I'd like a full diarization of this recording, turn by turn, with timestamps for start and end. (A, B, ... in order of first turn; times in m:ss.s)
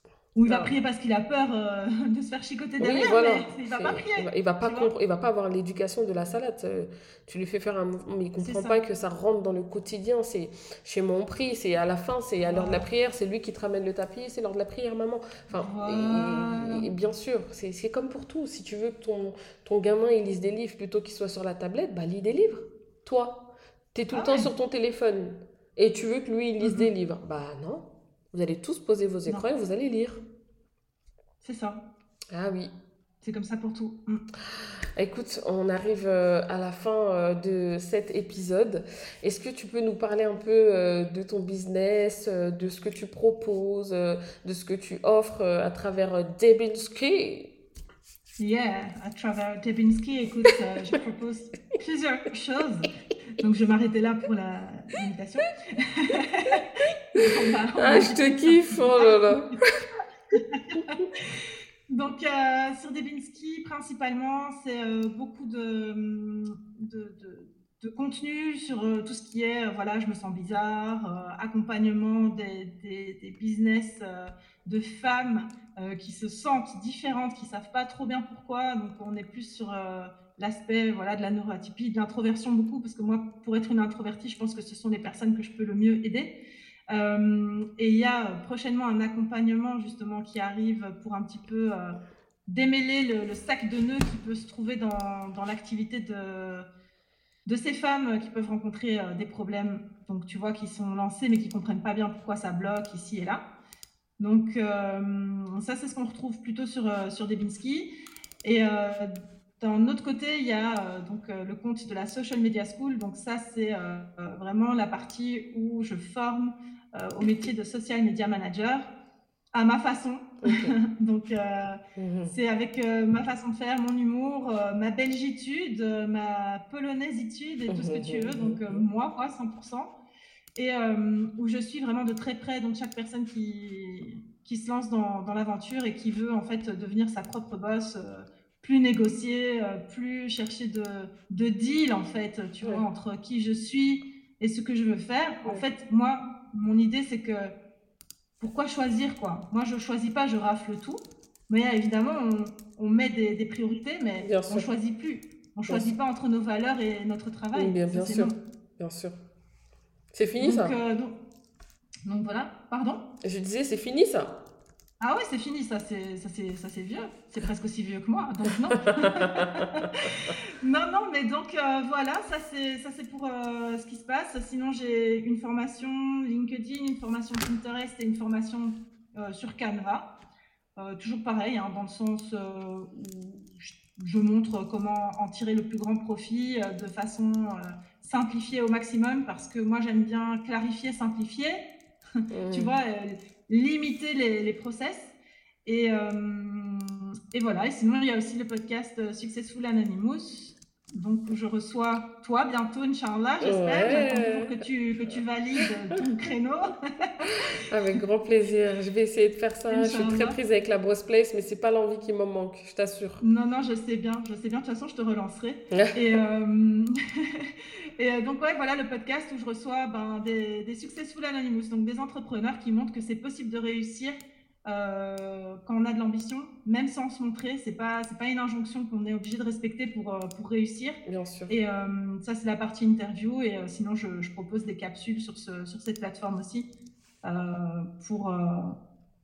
0:00.3-0:04.9 A
0:00.4-0:00.8 B
0:02.8-0:30.2 B
0:08.4-0:08.8 A
0:12.4-0:12.8 A
0:15.5-0:16.8 A
0:24.1-0:24.5 A
0:26.6-0:26.9 A
0:31.4-0:31.8 A
0:32.3-0:32.7 B
0:33.2-0:34.2 A
0:35.0-0:47.5 B
0:48.4-0:59.6 A
0:57.8-0:59.5 B
1:00.3-1:26.3 A
1:26.9-1:36.6 A
1:37.4-1:43.4 A
1:44.2-1:47.9 A
1:48.4-1:58.9 A
1:59.5-2:09.9 A
2:00.4-2:00.7 B
2:02.0-2:02.3 B
2:07.7-2:08.8 B
2:10.6-2:27.5 A
2:28.4-2:38.3 A
2:34.2-2:34.7 B
2:35.7-2:35.9 B
2:37.5-2:39.1 B
2:40.1-2:40.8 B
2:40.4-2:41.1 A
2:42.0-2:43.0 A
2:43.2-2:44.4 B
2:45.0-3:00.1 A
2:48.9-2:49.9 B
3:00.8-3:11.6 A
3:12.3-3:12.8 B
3:12.5-3:15.1 A
3:15.6-3:27.4 A
3:23.4-3:25.2 B
3:27.7-3:33.2 B
3:29.7-3:30.4 A
3:33.2-3:56.7 A
3:35.7-3:36.0 B
3:51.0-3:51.6 B
3:57.2-3:58.7 A